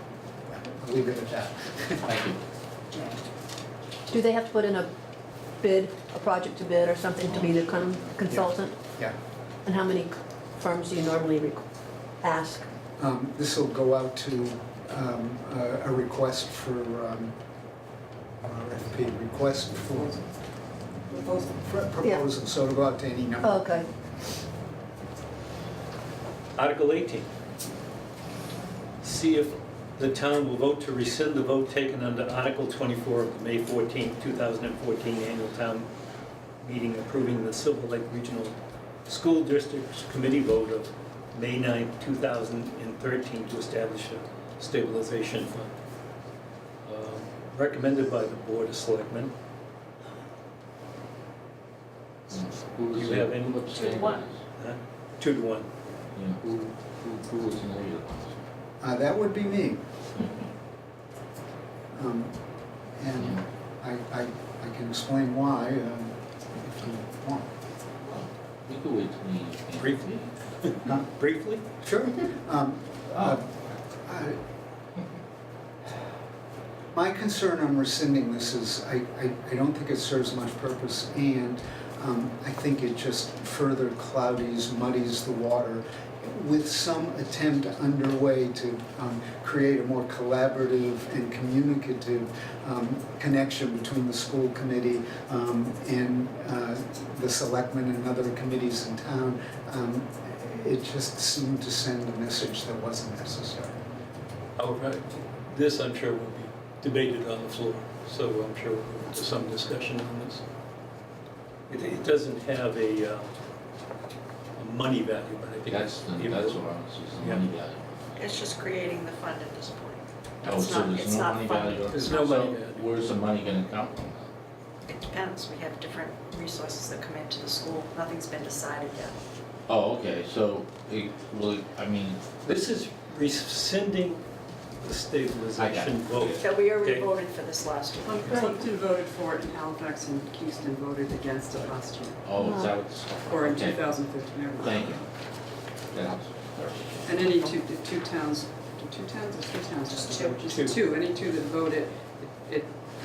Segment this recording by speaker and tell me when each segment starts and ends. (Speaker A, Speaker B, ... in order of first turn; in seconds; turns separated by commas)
Speaker A: 0.5-2.2, Speaker B: 2.1-2.4, Speaker C: 4.1-4.9, Speaker C: 5.6-8.7, Speaker B: 7.3-8.1, Speaker A: 8.3-9.1, Speaker C: 9.7-11.6, Speaker C: 12.2-12.7, Speaker A: 13.0-17.3, Speaker A: 18.4-20.2, Speaker D: 19.9-20.2, Speaker D: 21.1-21.6, Speaker A: 21.6-23.8, Speaker C: 23.4-23.9, Speaker E: 26.5-27.3, Speaker E: 29.0-35.9, Speaker E: 36.6-38.5, Speaker E: 39.1-45.7, Speaker E: 46.8-49.3, Speaker B: 52.3-54.4, Speaker E: 52.9-53.9, Speaker F: 53.7-54.2, Speaker E: 54.6-55.7, Speaker B: 56.1-58.4, Speaker A: 58.8-59.8, Speaker A: 61.9-62.3, Speaker A: 63.0-67.5, Speaker B: 68.0-70.3, Speaker E: 69.8-71.6, Speaker A: 71.8-74.4, Speaker A: 76.9-103.8, Speaker E: 104.6-110.4, Speaker E: 111.7-113.3, Speaker E: 114.6-116.6, Speaker B: 115.7-118.4, Speaker F: 118.2-122.3, Speaker B: 120.4-124.3, Speaker E: 121.9-122.8, Speaker F: 124.9-129.1, Speaker B: 129.7-132.2, Speaker E: 132.4-134.2, Speaker E: 134.8-137.1, Speaker B: 135.6-136.5, Speaker F: 136.4-138.5, Speaker D: 138.1-142.4, Speaker B: 142.2-144.0, Speaker C: 142.4-142.8, Speaker D: 143.2-145.1, Speaker B: 144.6-145.0, Speaker B: 145.9-147.4, Speaker D: 147.0-152.7, Speaker F: 149.9-150.4, Speaker E: 150.4-150.8